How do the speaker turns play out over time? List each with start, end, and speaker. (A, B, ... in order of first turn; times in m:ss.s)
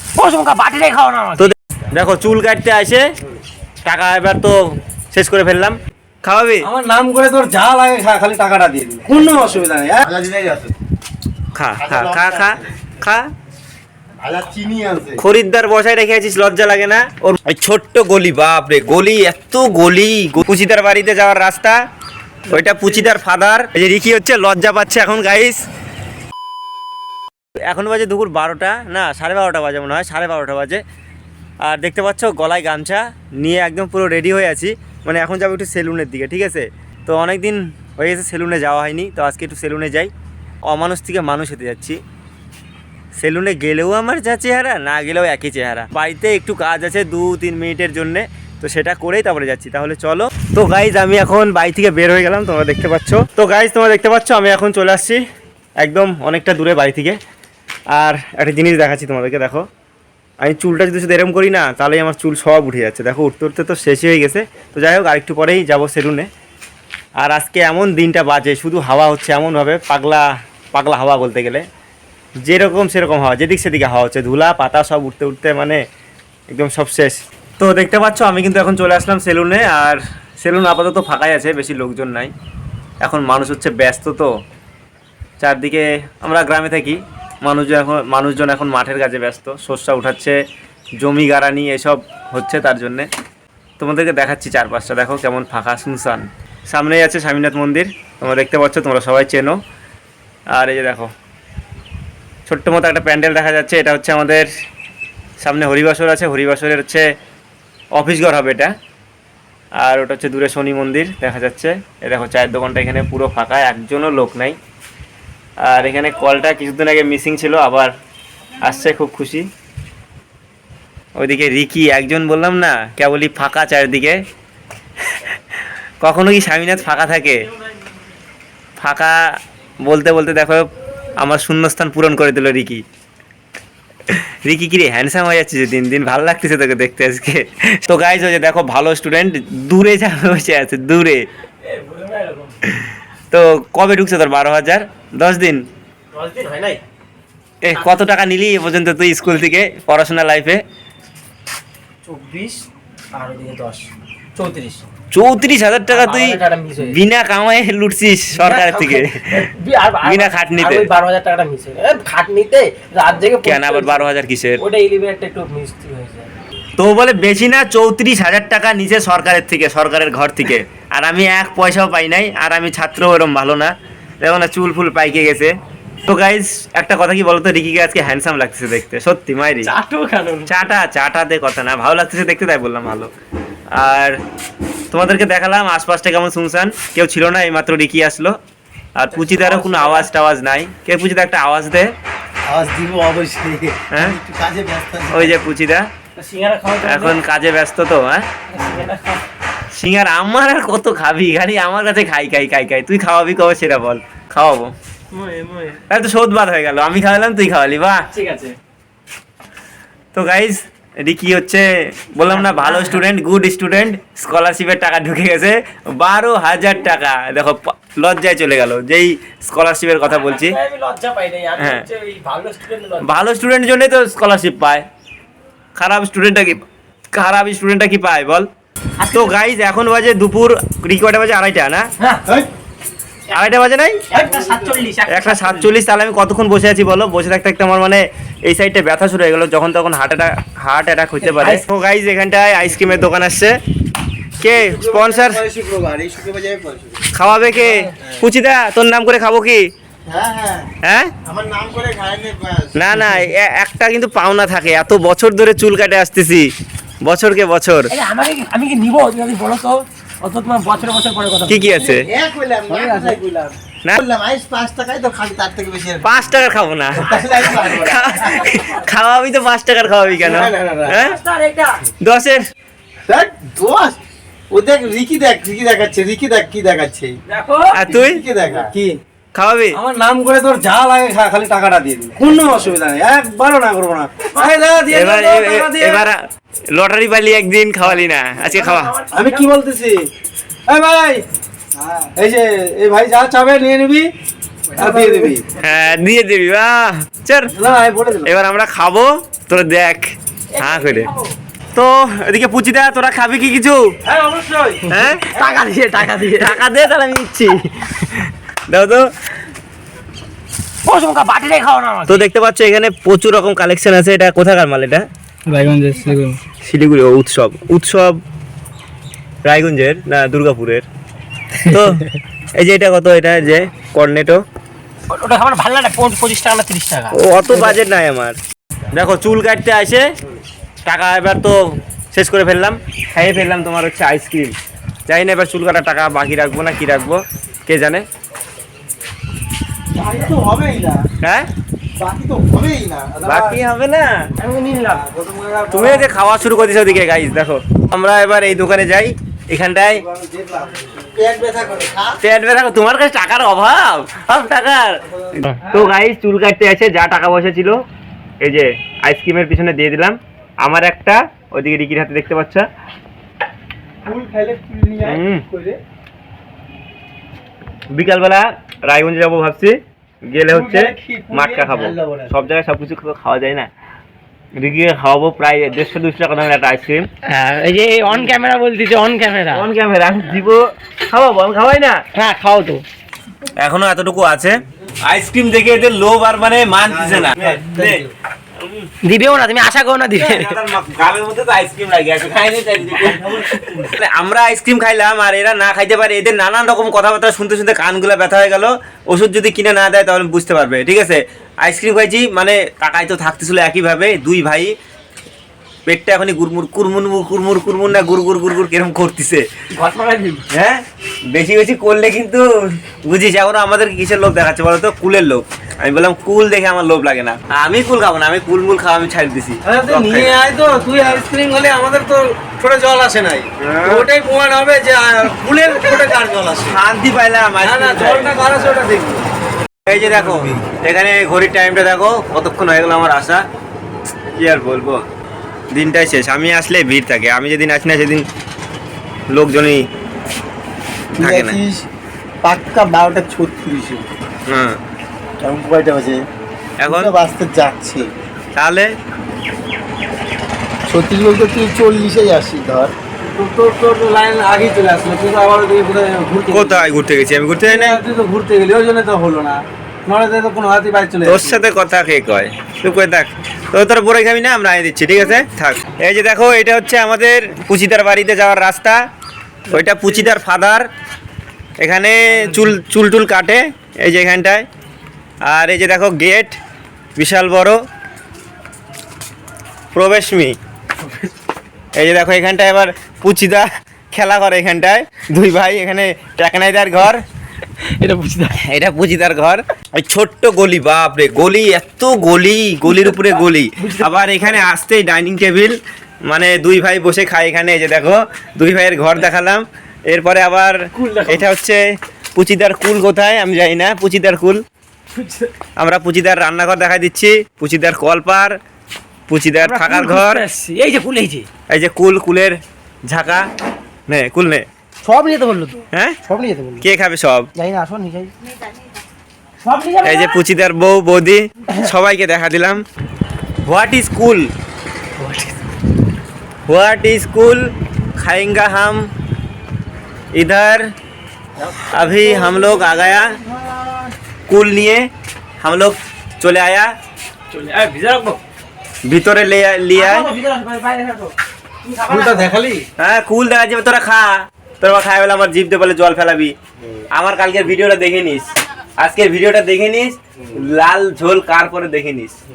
0:00.2-0:01.5 A
0:01.4-0:03.0 B
0:03.8-0:06.7 B
0:06.6-0:10.0 C
0:10.0-0:10.7 D
0:11.5-0:13.2 B
0:11.8-0:12.6 D
0:14.2-0:15.2 D
0:15.2-0:21.8 B
0:22.5-0:25.6 B
0:22.5-0:23.0 A
0:27.7-0:30.8 B
0:31.6-0:40.1 B
0:40.6-0:42.0 B
0:43.2-0:55.2 B
0:55.8-0:57.2 B
0:57.9-0:59.6 B
1:00.4-1:06.3 B
1:07.2-1:11.6 B
1:12.4-1:15.8 B
1:16.5-1:22.3 B
1:23.0-1:24.3 B
1:25.4-1:30.4 B
1:31.0-1:33.1 B
1:33.8-1:39.6 B
1:40.5-1:41.1 B
1:42.4-1:44.5 B
1:45.4-1:47.0 B
1:48.0-1:48.7 B
1:49.8-1:54.6 B
1:55.6-1:57.9 B
1:58.6-1:59.5 B
2:01.2-2:04.2 B
2:06.0-2:07.4 B
2:08.8-2:09.2 B
2:09.8-2:10.7 B
2:11.2-2:12.8 B
2:14.1-2:21.2 B
2:21.6-2:22.5 A
2:22.6-2:25.6 B
2:26.1-2:26.8 A
2:27.6-2:30.6 B
2:32.1-2:34.8 A
2:35.1-2:39.5 B
2:35.9-2:37.0 A
2:38.3-2:44.0 A
2:40.0-2:40.9 B
2:43.4-2:44.6 B
2:44.6-2:46.3 A
2:46.8-2:55.5 B
2:56.0-2:59.7 B
2:59.6-3:00.5 A
3:00.5-3:03.1 B
3:03.7-3:04.2 B
3:04.9-3:08.4 B
3:09.0-3:11.9 B
3:09.1-3:10.1 A
3:12.5-3:15.4 D
3:13.9-3:14.2 B
3:15.1-3:15.9 B
3:16.2-3:17.2 A
3:16.8-3:18.3 B
3:18.5-3:19.2 A
3:19.7-3:24.7 B
3:25.1-3:25.8 A
3:25.9-3:28.0 B
3:28.1-3:28.5 A
3:30.1-3:40.6 B
3:32.3-3:33.0 A
3:40.0-3:43.1 A
3:41.6-3:41.8 B
3:43.0-3:44.8 B
3:45.8-3:48.5 B
3:49.0-3:49.4 A
3:49.1-3:51.8 B
3:53.3-3:54.0 B
3:54.1-3:55.7 A
3:54.1-3:54.8 D
3:55.1-4:03.5 B
4:01.2-4:01.6 A
4:04.4-4:05.4 B
4:04.5-4:07.3 D
4:07.1-4:09.6 B
4:07.6-4:07.9 A
4:10.0-4:10.7 D
4:10.8-4:11.1 B
4:11.2-4:13.2 D
4:12.8-4:16.5 B
4:17.0-4:17.9 B
4:17.9-4:21.7 A
4:21.5-4:22.1 B
4:21.8-4:26.2 D
4:22.7-4:23.2 A
4:26.0-4:31.2 B
4:26.9-4:28.3 D
4:28.3-4:28.6 A
4:30.2-4:31.0 D
4:31.0-4:31.8 A
4:32.0-4:32.4 B
4:33.1-4:34.0 D
4:34.5-4:37.2 D
4:37.3-4:37.8 A
4:37.7-4:38.2 B
4:37.9-4:38.7 D
4:38.5-4:39.0 C
4:39.3-4:39.8 B
4:39.7-4:46.1 C
4:44.3-4:44.7 A
4:44.9-4:46.2 B
4:46.7-4:48.9 B
4:48.4-4:49.5 A
4:49.1-4:50.0 C
4:50.7-4:51.2 C
4:52.0-4:54.1 C
4:54.7-4:55.4 A
4:54.8-4:55.4 D
4:54.8-4:55.4 C
4:55.6-4:57.5 B
4:57.5-4:58.3 C
4:58.2-5:01.1 B
5:00.5-5:01.3 A
5:01.7-5:03.8 B
5:04.0-5:05.0 C
5:04.9-5:05.3 B
5:05.2-5:06.6 A
5:06.2-5:09.1 B
5:10.8-5:12.2 A
5:12.1-5:15.0 B
5:15.5-5:16.4 A
5:15.7-5:16.2 C
5:16.6-5:18.2 B
5:19.4-5:20.8 B
5:21.6-5:24.4 B
5:25.1-5:27.8 A
5:27.1-5:28.4 B
5:28.9-5:30.1 B
5:30.8-5:31.6 B
5:32.1-5:34.5 B
5:35.1-5:38.0 B
5:39.9-5:41.1 D
5:41.2-5:41.5 B
5:42.0-5:43.4 D
5:43.2-5:43.6 C
5:43.2-5:44.1 B
5:44.4-5:45.0 A
5:44.9-5:46.2 C
5:45.7-5:50.0 B
5:50.1-5:50.9 C
5:51.0-5:52.2 D
5:52.2-5:57.8 B
5:58.4-6:02.6 B
6:04.0-6:05.8 D
6:05.0-6:05.4 B
6:07.9-6:13.7 B
6:10.5-6:12.4 D
6:14.6-6:17.1 B
6:17.3-6:19.7 A
6:19.5-6:22.0 B
6:22.1-6:22.8 A
6:23.6-6:28.0 B
6:26.8-6:28.1 D
6:28.6-6:28.9 B
6:29.0-6:30.5 A
6:30.2-6:44.7 B
6:33.1-6:33.8 D
6:45.8-6:49.4 B
6:49.7-6:50.4 A
6:50.5-7:00.4 B
6:59.6-7:06.8 C
7:01.0-7:01.2 B
7:03.6-7:04.1 B
7:06.6-7:08.4 B
7:07.6-7:09.3 C
7:09.8-7:13.4 B
7:10.3-7:10.6 D
7:14.3-7:15.0 B
7:15.7-7:18.2 B
7:19.3-7:19.8 B
7:21.2-7:21.8 D
7:21.2-7:21.6 B
7:22.4-7:24.0 D
7:24.5-7:24.8 B
7:25.4-7:26.2 D
7:26.8-7:27.1 B
7:26.8-7:28.1 D
7:28.6-7:28.9 B
7:30.9-7:32.9 D
7:33.2-7:36.8 C
7:36.5-7:38.0 B
7:37.6-7:41.6 C
7:41.2-7:49.0 B
7:49.7-7:50.9 B
7:49.7-7:50.2 A
7:51.8-7:54.6 B
7:55.4-7:56.6 B
7:57.2-7:57.8 B
7:59.9-8:00.6 B
8:02.0-8:07.2 B
8:07.8-8:08.6 A
8:08.6-8:15.8 B
8:12.9-8:14.5 A
8:16.3-8:21.8 B
8:20.9-8:21.4 A
8:22.3-8:24.6 B
8:25.1-8:25.5 A
8:25.8-8:28.6 B
8:29.3-8:30.4 B
8:29.6-8:31.5 A
8:31.7-8:33.5 B
8:34.1-8:34.6 B
8:35.0-8:36.8 A
8:35.9-8:36.2 B
8:36.8-8:37.5 B
8:37.5-8:38.7 A
8:39.6-8:40.4 A
8:40.0-8:42.8 B
8:43.6-8:44.5 B
8:45.2-8:45.6 A
8:46.7-8:49.1 B
8:50.3-8:50.8 B
8:51.7-8:54.1 A
8:51.9-8:53.4 B
8:54.5-8:55.1 B
8:55.6-8:56.9 B
8:57.5-8:58.4 A
8:59.0-9:00.3 B
8:59.9-9:02.6 A
9:02.1-9:02.8 D
9:03.0-9:06.5 B
9:07.1-9:08.5 B
9:09.0-9:12.3 B